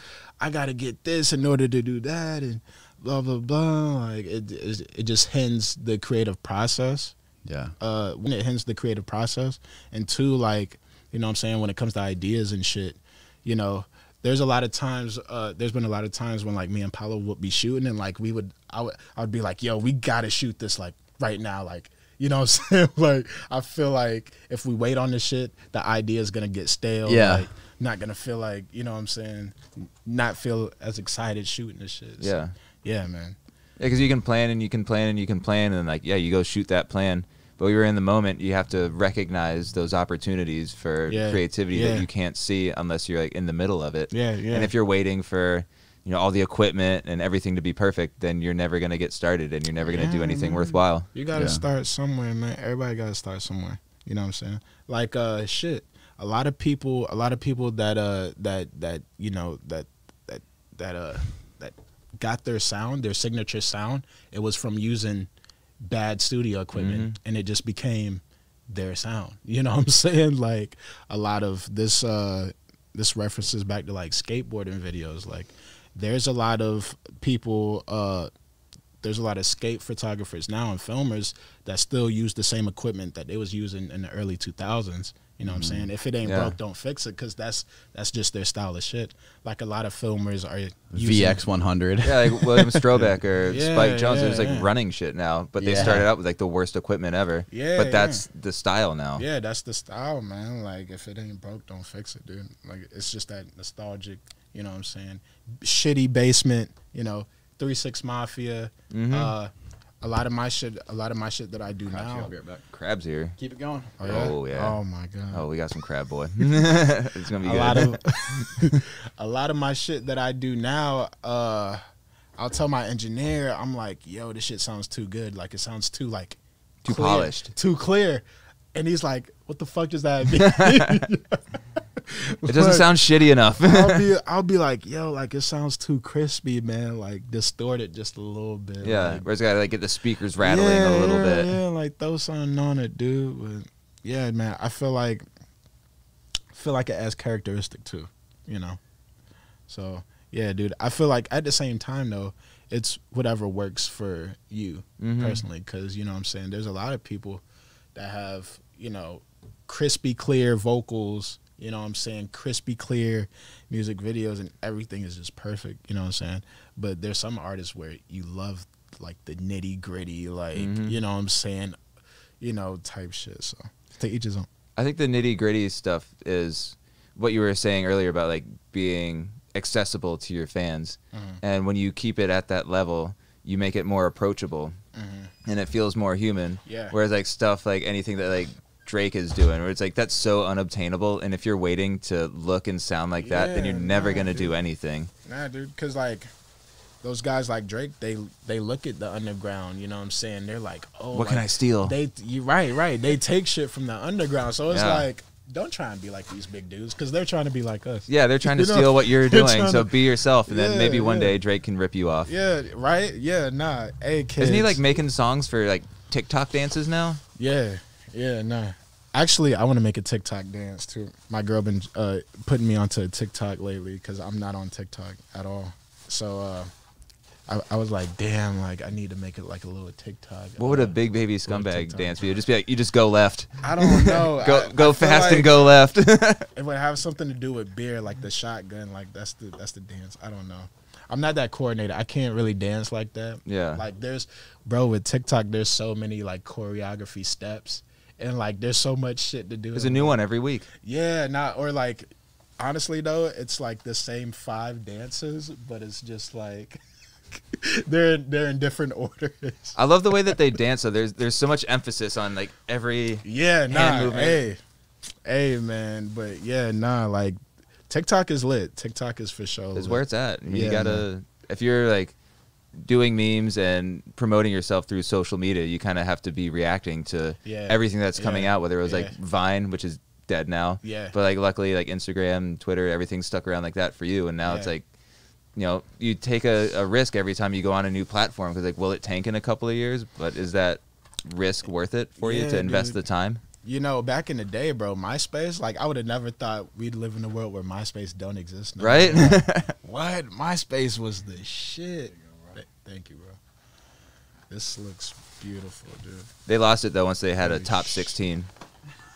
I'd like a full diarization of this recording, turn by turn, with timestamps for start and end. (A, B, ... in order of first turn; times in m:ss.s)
0:00.4-0:07.1 A
0:07.4-0:07.7 B
0:07.8-0:33.4 A
0:27.0-0:27.4 B
0:32.2-0:32.5 C
0:33.8-0:51.1 C
0:41.1-0:42.1 A
0:44.1-0:44.7 A
0:49.8-1:05.3 A
0:51.3-0:51.6 B
1:05.8-1:18.3 A
1:06.7-1:07.1 C
1:19.0-1:31.4 A
1:25.4-1:25.9 B
1:26.2-1:26.6 C
1:30.9-1:32.8 B
1:32.0-1:39.2 C
1:33.5-1:34.7 A
1:35.6-1:36.1 B
1:37.5-1:38.3 A
1:39.1-1:52.3 A
1:48.9-1:49.3 C
1:51.9-1:52.7 B
1:52.7-1:53.3 C
1:53.4-1:53.9 B
1:54.0-1:55.5 A
1:54.0-1:54.8 C
1:55.3-1:58.6 C
1:57.4-2:01.8 A
2:02.4-2:11.6 A
2:06.8-2:07.5 C
2:10.4-2:10.8 C
2:12.1-2:12.9 A
2:12.4-2:14.1 C
2:13.6-2:19.2 A
2:18.8-2:21.6 C
2:20.4-2:25.2 A
2:26.5-2:28.8 A
2:29.7-2:37.4 A
2:35.0-2:35.4 C
2:37.9-2:51.8 A
2:50.5-2:51.0 C
2:52.4-2:54.5 A
2:54.8-3:04.7 C
3:01.1-3:01.4 A
3:04.9-3:05.3 A
3:05.4-3:15.1 C
3:06.6-3:07.0 A
3:13.2-3:14.6 A
3:15.2-3:16.3 A
3:17.0-3:29.9 A
3:21.1-3:21.9 C
3:24.7-3:25.1 C
3:28.1-3:32.3 C
3:30.5-3:31.4 A
3:32.2-3:34.8 A
3:34.4-3:37.2 C
3:37.4-3:46.7 A
3:47.5-3:52.5 A
3:50.6-3:56.5 C
3:53.6-3:55.8 A
3:56.5-4:10.2 A
4:03.4-4:03.8 C
4:09.7-4:10.7 C
4:10.8-4:16.8 A
4:17.3-4:20.6 A
4:19.7-4:24.4 C
4:23.2-4:24.6 A
4:25.2-4:31.1 A
4:29.7-4:32.1 C
4:32.8-4:44.8 C
4:37.4-4:39.2 A
4:40.8-4:41.1 A
4:44.4-4:44.8 A
4:45.6-4:53.4 C
4:52.2-4:53.0 A
4:53.6-5:03.4 A
4:58.8-4:59.7 C
5:04.5-5:06.3 A
5:06.5-5:08.5 C
5:07.4-5:08.1 A